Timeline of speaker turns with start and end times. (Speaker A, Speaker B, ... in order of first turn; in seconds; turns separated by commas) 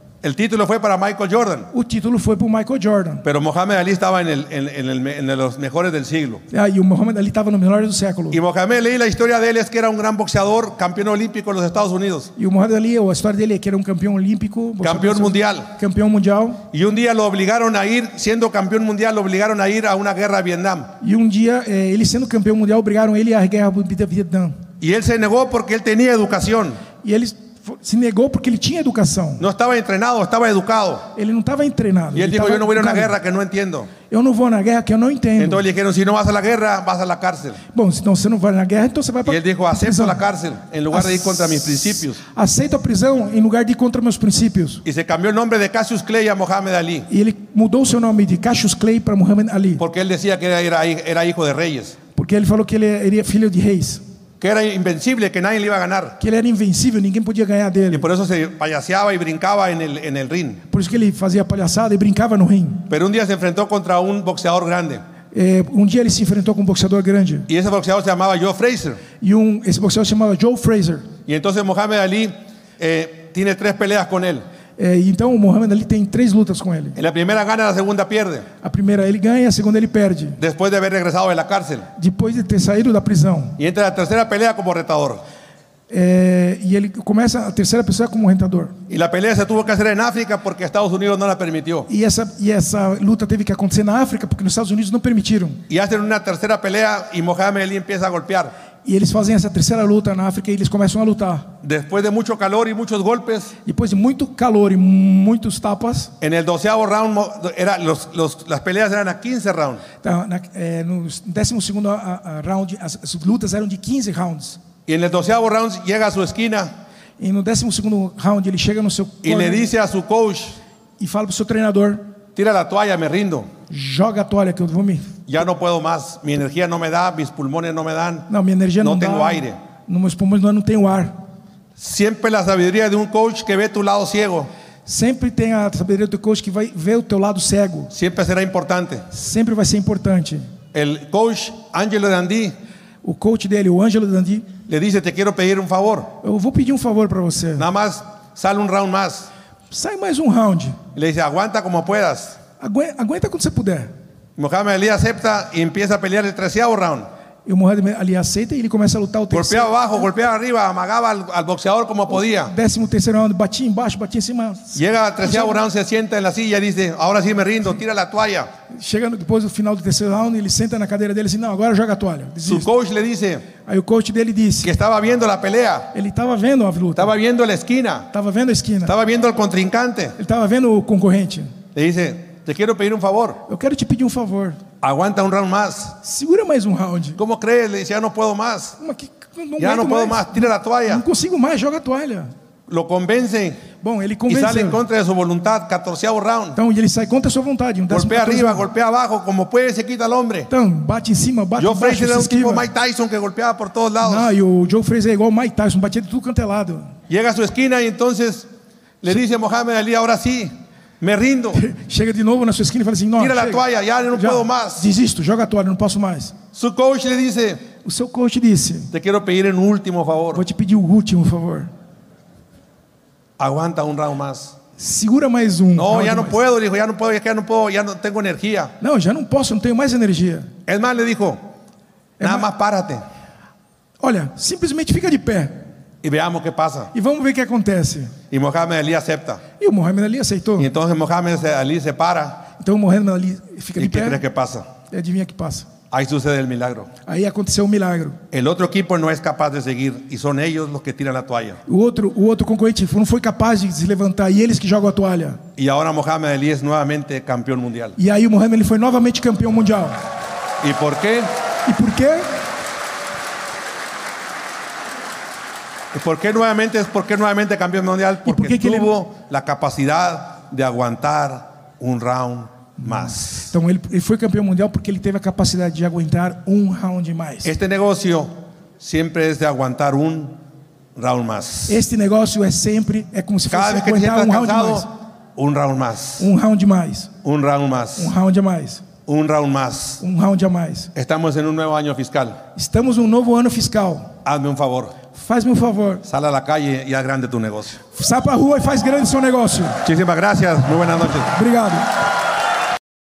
Speaker A: 0.2-1.7, Speaker B: 1.7-3.2, Speaker A: 3.2-6.4, Speaker B: 6.5-8.4, Speaker A: 8.3-12.3, Speaker B: 12.4-16.6, Speaker A: 14.8-15.7, Speaker A: 16.7-20.9, Speaker B: 21.0-24.6, Speaker A: 24.8-26.8, Speaker B: 27.0-29.4, Speaker A: 29.4-31.1, Speaker B: 31.1-33.1, Speaker A: 32.1-33.9, Speaker B: 34.1-35.6, Speaker A: 35.4-37.6, Speaker B: 37.7-40.2, Speaker A: 39.2-42.2, Speaker B: 40.9-44.8, Speaker A: 44.9-47.1, Speaker B: 47.1-49.8, Speaker A: 49.8-52.0, Speaker B: 52.1-54.0, Speaker A: 54.4-56.2, Speaker B: 56.2-58.1, Speaker A: 57.9-60.6, Speaker B: 60.7-62.9, Speaker A: 62.9-65.0, Speaker B: 65.3-67.5, Speaker A: 67.5-69.0, Speaker B: 69.2-71.1, Speaker A: 71.3-74.4, Speaker B: 74.8-77.0, Speaker A: 77.0-78.5, Speaker B: 78.6-80.4, Speaker A: 80.4-81.9, Speaker B: 82.0-83.6, Speaker A: 83.6-85.2, Speaker B: 85.9-88.7, Speaker A: 88.9-91.9, Speaker B: 91.9-95.6, Speaker A: 95.7-98.5, Speaker B: 98.8-101.5, Speaker A: 101.6-103.5, Speaker B: 103.7-106.1, Speaker A: 106.2-109.8, Speaker B: 110.0-114.6, Speaker A: 114.9-116.7, Speaker B: 117.2-119.6, Speaker A: 119.2-120.6, Speaker B: 121.0-122.1, Speaker A: 122.3-123.5, Speaker B: 123.7-125.1, Speaker A: 125.3-128.3, Speaker B: 128.3-131.2, Speaker A: 128.8-129.6, Speaker A: 131.8-134.5, Speaker B: 134.9-137.9, Speaker A: 137.9-139.1, Speaker B: 139.1-140.5, Speaker A: 140.7-142.6, Speaker B: 143.0-144.5, Speaker A: 144.7-146.1, Speaker B: 146.2-147.7, Speaker A: 147.6-149.3, Speaker B: 149.7-150.8, Speaker A: 150.9-152.4, Speaker B: 152.6-153.9, Speaker A: 154.4-157.1, Speaker B: 157.5-159.7, Speaker A: 159.3-162.5, Speaker B: 162.1-165.6, Speaker A: 164.8-168.5, Speaker B: 168.7-172.7, Speaker A: 172.4-173.5, Speaker B: 173.6-174.7, Speaker A: 174.6-175.9, Speaker B: 175.9-177.2, Speaker A: 177.0-178.1, Speaker B: 178.1-178.9, Speaker A: 178.9-180.2, Speaker B: 180.2-181.5, Speaker A: 181.7-183.4, Speaker B: 183.5-184.6, Speaker A: 184.8-186.0, Speaker B: 186.0-187.2, Speaker A: 187.2-188.8, Speaker B: 188.8-192.3, Speaker A: 189.6-191.0, Speaker A: 192.7-193.6, Speaker B: 193.8-194.8, Speaker A: 194.3-196.6, Speaker B: 196.6-198.7, Speaker A: 197.9-200.5, Speaker B: 200.5-202.7, Speaker A: 201.6-204.3, Speaker B: 204.0-206.9, Speaker A: 207.1-208.5, Speaker A: 209.0-211.6, Speaker B: 211.5-216.4, Speaker A: 213.2-214.8, Speaker A: 216.5-217.6, Speaker B: 217.8-218.9, Speaker A: 218.9-220.4, Speaker B: 220.3-221.7, Speaker A: 223.4-224.6, Speaker B: 224.8-226.4, Speaker A: 225.8-228.7, Speaker B: 228.8-230.5, Speaker A: 230.7-231.4, Speaker B: 232.2-232.5, Speaker A: 232.2-233.0, Speaker B: 234.0-235.6, Speaker A: 236.0-236.9, Speaker B: 236.9-238.2, Speaker A: 238.3-239.4, Speaker B: 239.6-240.7, Speaker A: 240.6-242.5, Speaker B: 242.6-244.2, Speaker A: 243.8-244.7, Speaker B: 244.9-245.7, Speaker A: 245.9-246.9, Speaker B: 247.1-248.2, Speaker A: 248.3-251.6, Speaker B: 251.7-255.4, Speaker A: 255.6-258.0, Speaker B: 258.0-260.0, Speaker A: 260.6-261.3, Speaker B: 261.6-262.3, Speaker A: 265.9-273.5, Speaker B: 268.3-268.9, Speaker B: 272.9-277.5, Speaker A: 277.4-280.4, Speaker A: 281.0-281.8, Speaker B: 281.7-284.9, Speaker A: 283.5-286.3, Speaker B: 286.2-287.1, Speaker A: 287.2-288.1, Speaker B: 288.0-288.8, Speaker A: 289.1-290.0, Speaker B: 290.0-290.9, Speaker A: 290.9-292.4, Speaker B: 292.6-294.1, Speaker A: 294.2-294.9, Speaker B: 295.1-296.0, Speaker A: 296.1-297.8, Speaker B: 297.9-299.8, Speaker A: 299.8-301.3, Speaker B: 301.3-301.9